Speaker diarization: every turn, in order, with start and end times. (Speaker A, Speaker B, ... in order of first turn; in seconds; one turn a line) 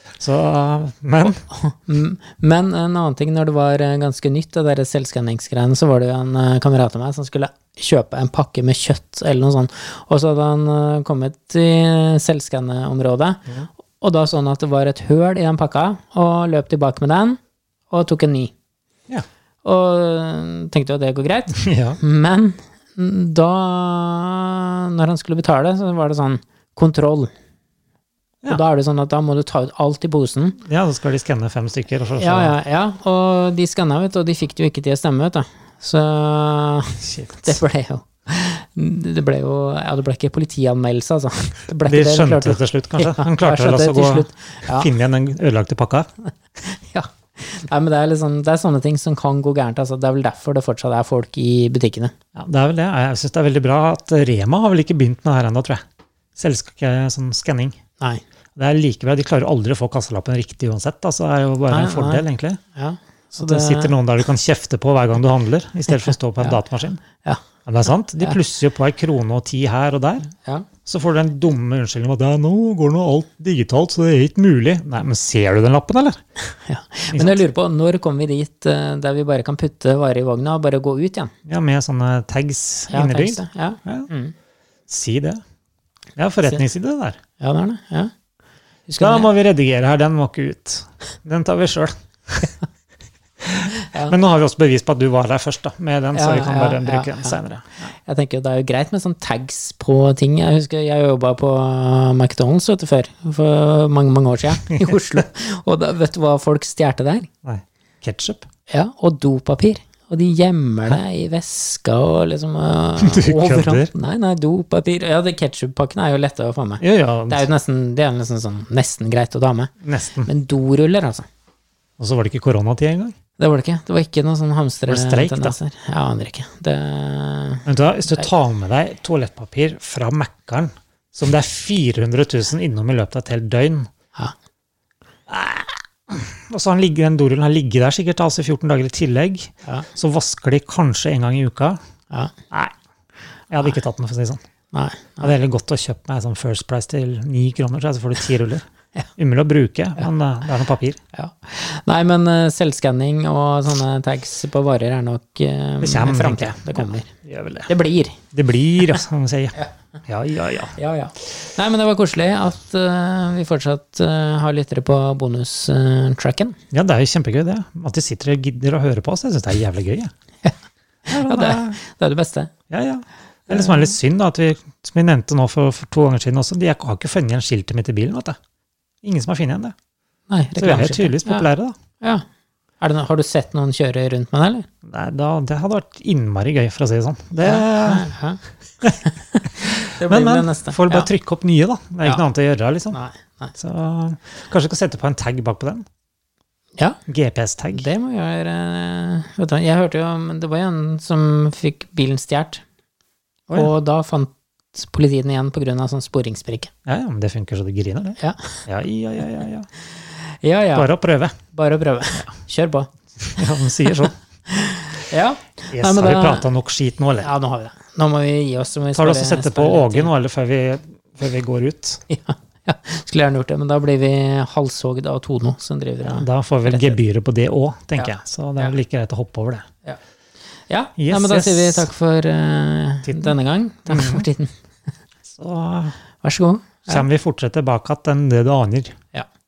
Speaker A: 0.2-1.4
Speaker B: 1.5-17.4
Speaker B: 17.9-18.5
Speaker B: 19.6-27.3
Speaker A: 21.5-22.0
Speaker B: 28.4-30.6
Speaker A: 30.6-32.6
Speaker B: 32.2-44.9
Speaker A: 37.0-37.6
Speaker A: 41.8-46.1
Speaker B: 46.6-52.1
Speaker A: 52.3-55.8
Speaker A: 56.4-57.8
Speaker A: 58.5-62.6
Speaker B: 61.7-62.2
Speaker B: 62.7-63.9
Speaker A: 63.3-67.0
Speaker A: 67.7-70.3
Speaker A: 70.8-76.2
Speaker B: 76.5-81.3
Speaker A: 77.1-77.4
Speaker A: 81.5-84.1
Speaker B: 82.9-84.3
Speaker A: 84.9-85.4
Speaker A: 86.2-87.2
Speaker B: 87.4-88.1
Speaker B: 88.9-89.3
Speaker A: 89.0-92.5
Speaker A: 93.4-97.9
Speaker B: 93.8-94.2
Speaker B: 96.1-97.4
Speaker B: 98.0-107.3
Speaker A: 107.4-108.5
Speaker B: 108.7-119.7
Speaker A: 113.0-113.9
Speaker A: 116.8-117.5
Speaker A: 119.8-120.3
Speaker B: 120.2-121.2
Speaker A: 122.0-123.1
Speaker B: 123.4-127.7
Speaker A: 124.9-125.5
Speaker A: 127.7-133.9
Speaker A: 135.3-141.8
Speaker A: 143.5-144.4
Speaker B: 144.7-145.3
Speaker A: 145.2-148.6
Speaker A: 149.2-151.0
Speaker B: 151.1-157.1
Speaker A: 155.8-157.7
Speaker B: 157.7-158.2
Speaker A: 158.3-160.8
Speaker B: 160.8-166.6
Speaker A: 166.7-170.1
Speaker A: 171.1-171.8
Speaker B: 171.1-172.5
Speaker A: 172.7-178.4
Speaker B: 173.5-173.9
Speaker A: 179.0-179.7
Speaker B: 180.3-181.4
Speaker A: 180.6-181.7
Speaker B: 182.8-184.7
Speaker A: 184.8-188.1
Speaker B: 187.4-191.1
Speaker A: 189.6-193.0
Speaker B: 192.9-193.5
Speaker A: 193.5-195.8
Speaker A: 197.1-197.9
Speaker B: 197.7-202.6
Speaker B: 203.5-206.7
Speaker A: 206.8-209.7
Speaker B: 208.2-208.6
Speaker B: 210.4-210.9
Speaker A: 210.7-211.3
Speaker B: 211.5-213.4
Speaker A: 213.3-214.1
Speaker B: 214.5-216.4
Speaker A: 215.7-217.3
Speaker B: 217.2-220.1
Speaker A: 218.9-222.0
Speaker B: 222.1-227.0
Speaker A: 226.0-229.6
Speaker B: 228.0-228.7
Speaker B: 230.7-234.5
Speaker A: 231.0-231.9
Speaker A: 233.1-233.3
Speaker A: 233.9-234.3
Speaker A: 235.3-235.9
Speaker B: 236.2-237.1
Speaker A: 236.9-238.9